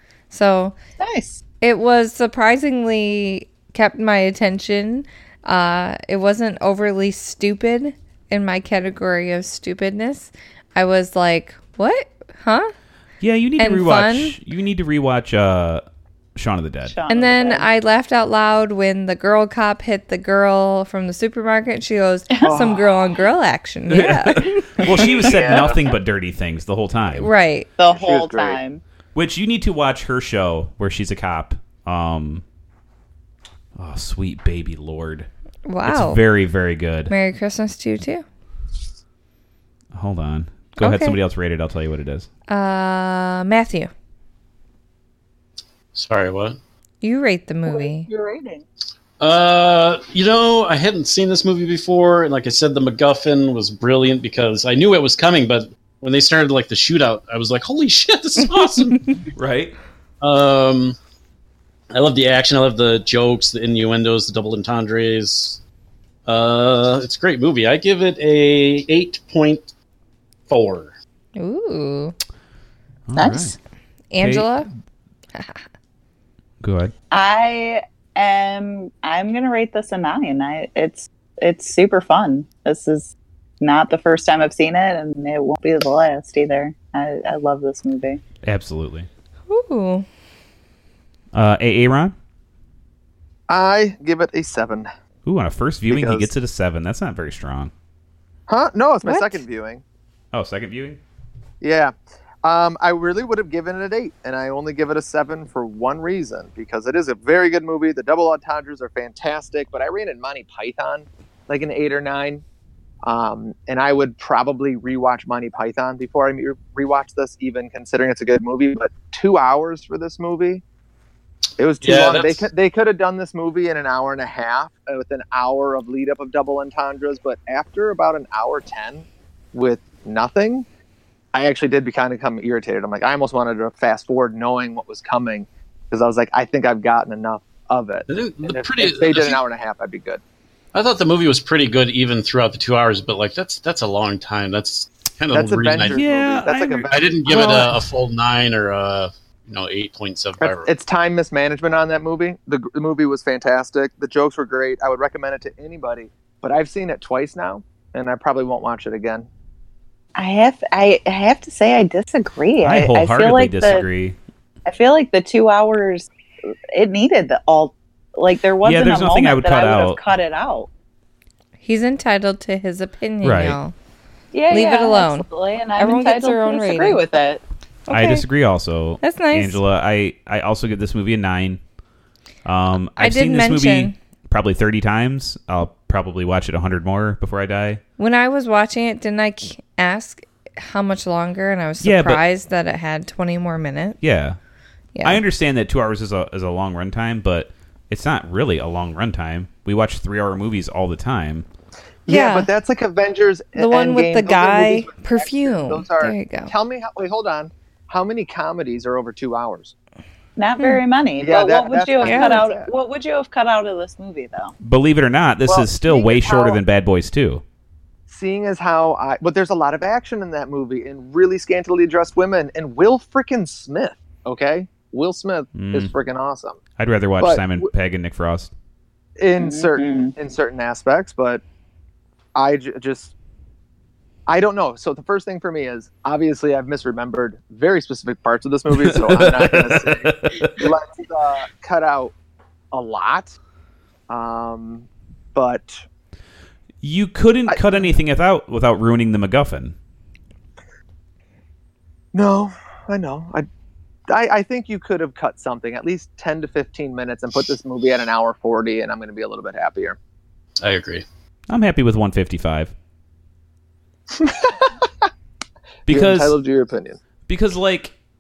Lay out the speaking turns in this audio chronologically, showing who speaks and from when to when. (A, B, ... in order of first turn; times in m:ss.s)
0:00.3-0:00.8 A
0:01.0-0:01.4 B
0:01.6-0:12.7 A
0:13.2-0:15.8 C
0:13.6-0:14.4 A
0:16.4-0:16.9 C
0:16.8-0:17.6 B
0:17.1-0:24.7 A
0:22.3-0:22.7 B
0:22.4-0:22.8 D
0:23.9-0:27.3 C
0:25.2-0:25.6 B
0:27.1-0:27.7 A
0:27.8-0:28.8 B
0:27.9-0:28.6 D
0:29.1-0:32.4 C
0:33.8-0:35.3 C
0:35.6-0:36.2 A
0:35.8-0:37.1 C
0:37.1-0:38.2 A
0:39.9-0:42.3 C
0:40.8-0:41.2 A
0:42.5-0:43.9 A
0:45.9-0:46.6 E
0:47.0-0:48.1 A
0:47.7-0:48.6 B
0:49.2-0:59.2 E
0:59.3-0:59.8 C
1:00.2-1:01.0 E
1:01.9-1:05.6 E
1:06.2-1:09.7 E
1:10.5-1:10.9 E
1:11.4-1:12.1 A
1:13.1-1:13.6 C
1:13.2-1:13.6 B
1:14.1-1:14.7 A
1:14.2-1:14.5 C
1:16.6-1:16.9 C
1:17.1-1:28.2 B
1:28.4-1:29.1 C
1:29.5-1:30.0 A
1:31.3-1:32.1 C
1:33.5-1:34.9 D
1:35.2-1:37.7 C
1:35.9-1:36.3 D
1:38.5-1:39.8 D
1:39.0-1:39.4 A
1:40.3-1:41.0 C
1:41.6-1:52.4 D
1:53.0-2:00.6 D
2:01.6-2:10.6 D
2:01.8-2:02.5 E
2:11.3-2:20.2 D
2:18.1-2:19.4 E
2:20.7-2:26.0 E
2:25.3-2:27.7 D
2:25.8-2:27.8 C
2:26.9-2:30.7 E
2:30.4-2:39.3 D
2:40.1-2:43.9 B
2:42.6-2:44.2 C
2:44.6-2:46.1 B
2:46.7-2:50.7 B
2:48.6-2:50.0 C
2:51.6-2:53.7 A
2:53.2-2:53.6 C
2:54.3-2:57.4 B
2:54.5-2:57.0 A
2:57.9-2:58.2 A
2:57.9-3:01.6 C
2:59.0-2:59.6 A
3:02.4-3:07.8 C
3:03.0-3:04.0 A
3:08.0-3:14.0 A
3:11.8-3:12.2 C
3:14.0-3:14.4 C
3:14.9-3:15.2 A
3:15.0-3:21.4 C
3:22.1-3:29.7 D
3:22.1-3:22.5 A
3:23.6-3:26.5 A
3:30.4-3:34.5 B
3:31.2-3:32.7 D
3:32.0-3:32.4 A
3:34.6-3:37.4 C
3:35.4-3:36.5 D
3:38.1-3:46.6 D
3:45.5-3:45.9 C
3:46.8-3:48.5 C
3:47.2-3:47.7 D
3:49.2-3:51.4 D
3:49.4-3:50.1 B
3:52.3-3:53.1 D
3:54.3-4:02.1 D
3:58.7-4:00.6 C
4:02.7-4:03.4 D
4:04.1-4:05.8 D
4:06.8-4:09.7 C
4:07.5-4:07.8 D
4:12.1-4:13.5 D
4:14.1-4:20.0 D
4:20.6-4:21.0 E
4:21.5-4:22.7 C
4:24.1-4:24.7 D
4:25.8-4:27.0 D
4:25.9-4:26.4 C
4:27.3-4:27.9 C